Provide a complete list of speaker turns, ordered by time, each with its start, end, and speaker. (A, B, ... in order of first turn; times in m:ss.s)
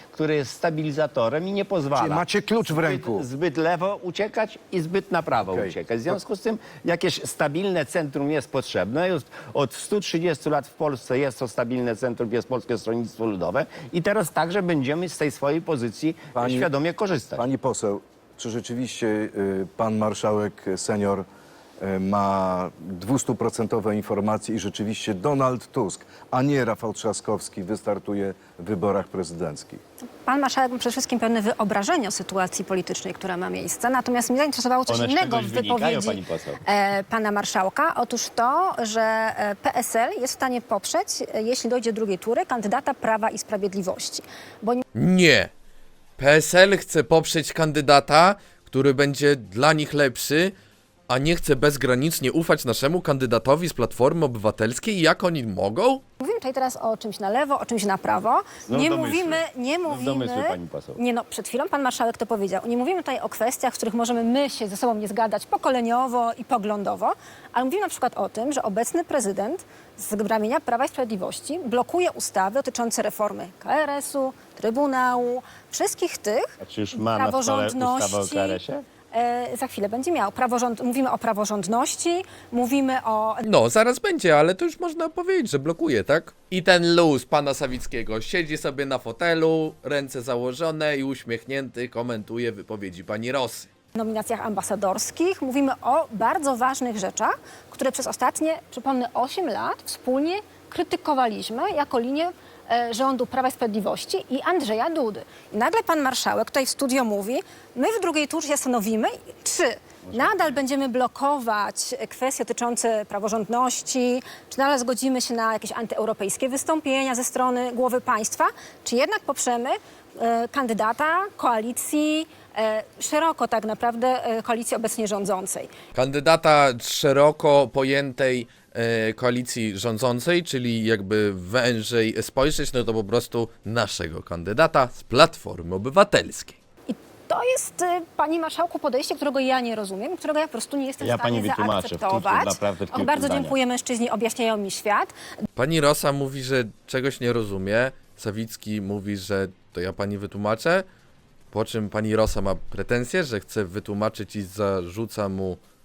0:00.1-0:17.4 A
0:01.9-0:03.2 B
0:05.4-0:06.2 B
0:16.4-0:16.7 B
0:17.4-0:21.3 B
0:21.8-0:29.8 B
0:30.2-0:44.8 C
0:34.9-0:36.6 A
0:45.0-0:45.5 D
0:46.2-0:50.5 D
0:51.1-0:56.0 D
0:56.2-1:23.5 C
0:58.7-1:01.0 A
1:16.6-1:18.8 A
1:23.4-1:33.7 D
1:34.0-2:05.7 C
1:50.1-1:50.6 A
2:06.0-2:16.6 D
2:16.9-2:25.1 C
2:21.0-2:23.6 A
2:25.6-2:30.9 D
2:31.5-2:35.6 D